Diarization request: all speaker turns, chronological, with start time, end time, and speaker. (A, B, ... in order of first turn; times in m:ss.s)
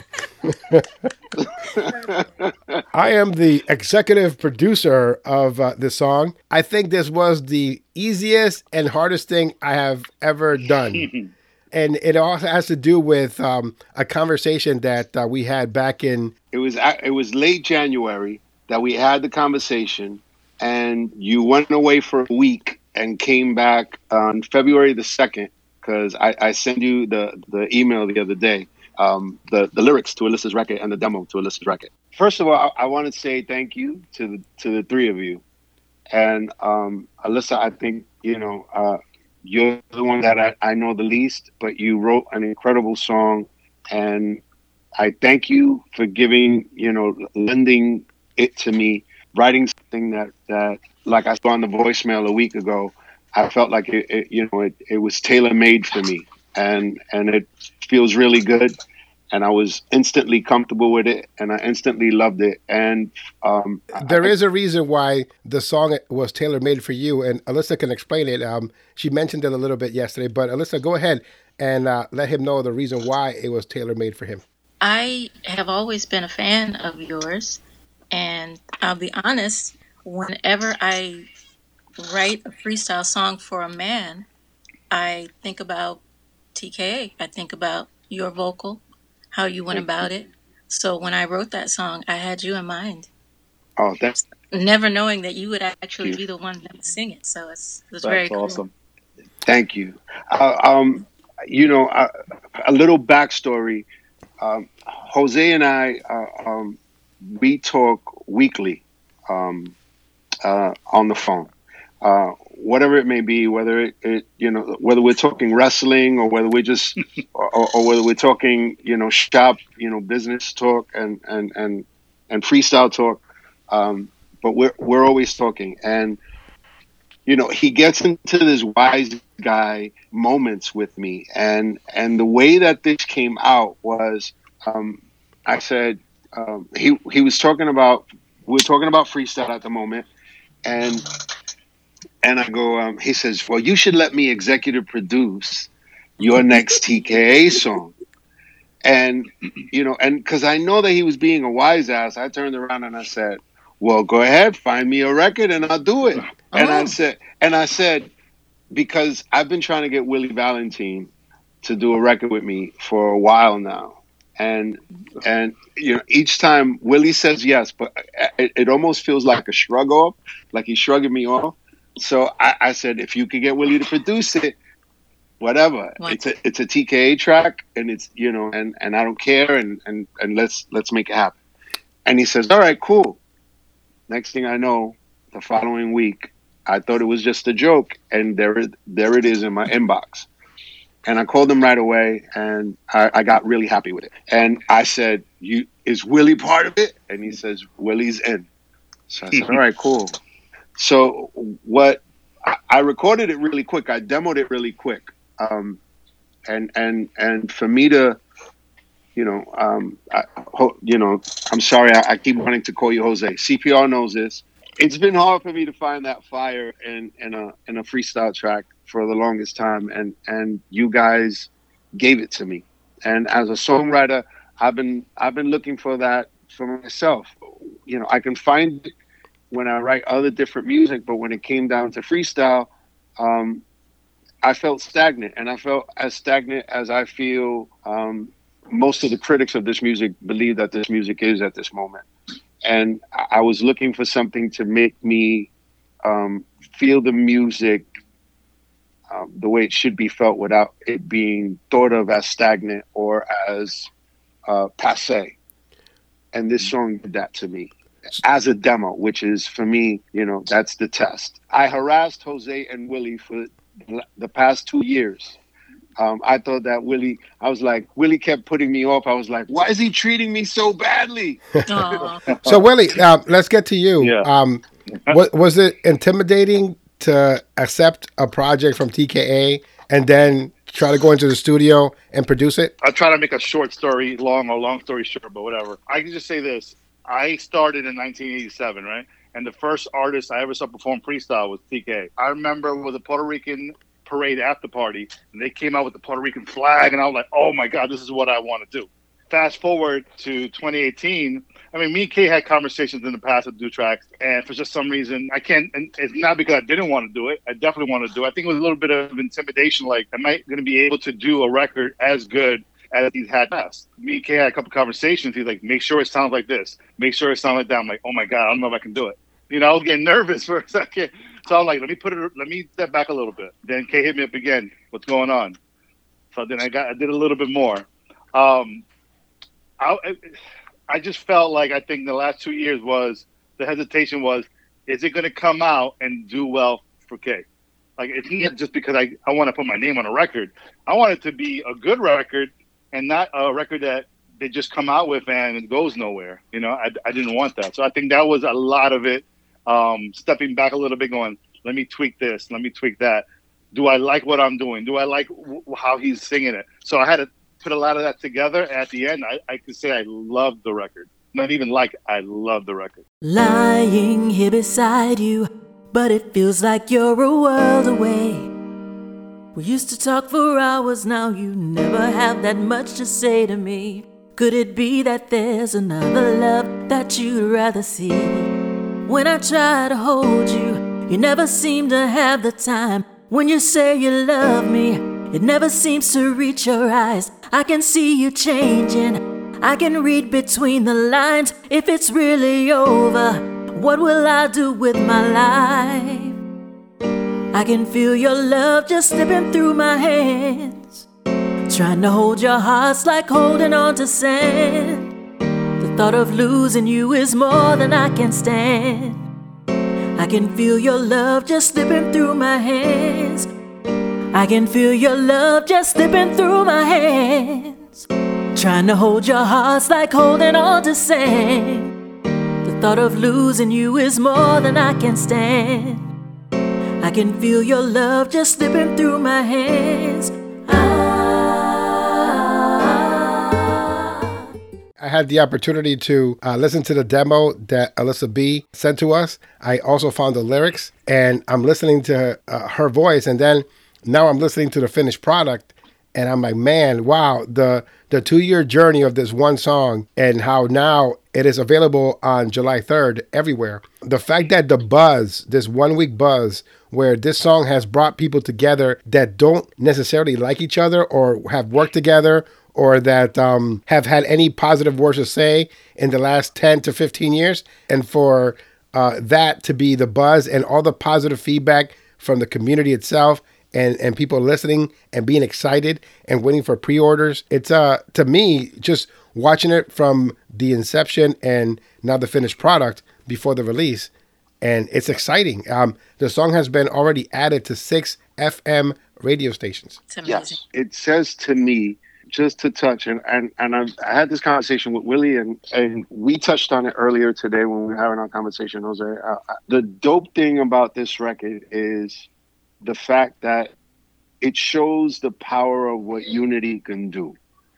0:00.5-0:00.9 A
0:01.4-0:02.7 B
0:02.9-0:11.1 A
0:11.0-0:11.3 C
0:11.7-0:16.3 A
0:16.5-0:35.4 B
0:36.1-0:44.4 B
0:45.0-0:58.8 B
0:59.3-1:04.3 B
1:04.0-1:14.4 A
1:14.8-1:17.6 D
1:18.1-1:21.3 D
1:22.0-1:24.3 D
1:24.9-1:26.0 D
1:26.5-1:33.1 D
1:29.7-1:30.1 B
1:33.8-1:34.2 B
1:34.5-1:38.6 D
1:38.0-1:38.7 C
1:39.4-1:43.9 B
1:44.4-1:49.7 B
1:50.4-2:06.2 B
2:07.2-2:20.1 B
2:20.6-2:21.0 B
2:22.2-2:27.9 B
2:28.8-2:38.1 B
2:36.5-2:36.9 D
2:38.7-2:41.1 B
2:41.6-2:54.6 B
2:55.4-3:01.4 B
3:02.0-3:03.2 B
3:04.1-3:10.3 B
3:11.0-3:18.5 B
3:19.1-3:20.2 B
3:20.8-3:25.8 B
3:26.5-3:28.2 B
3:29.2-3:48.9 B
3:49.5-3:53.6 B
3:54.4-4:02.0 B
4:02.6-4:05.5 B
4:06.0-4:07.8 B
4:09.1-4:13.9 B
4:14.5-4:15.4 B
4:16.3-4:25.4 B
4:26.0-4:32.1 B
4:31.7-4:32.4 D
4:32.4-4:42.7 A
4:34.0-4:34.3 C
4:42.8-5:25.6 C
5:26.3-5:28.8 C
5:29.8-5:30.3 C
5:30.9-5:37.4 C
5:38.0-6:03.0 C
6:03.2-6:08.5 E
6:09.5-6:36.4 E
6:37.5-6:41.1 E
6:41.7-6:45.1 E
6:45.8-6:49.2 E
6:50.2-6:53.5 E
6:54.3-7:01.9 E
7:02.6-7:06.0 E
7:07.0-7:14.3 E
7:15.0-8:04.1 A
8:04.6-8:10.0 A
8:10.1-8:10.6 D
8:10.2-8:22.3 B
8:22.8-8:23.7 B
8:24.4-8:27.4 B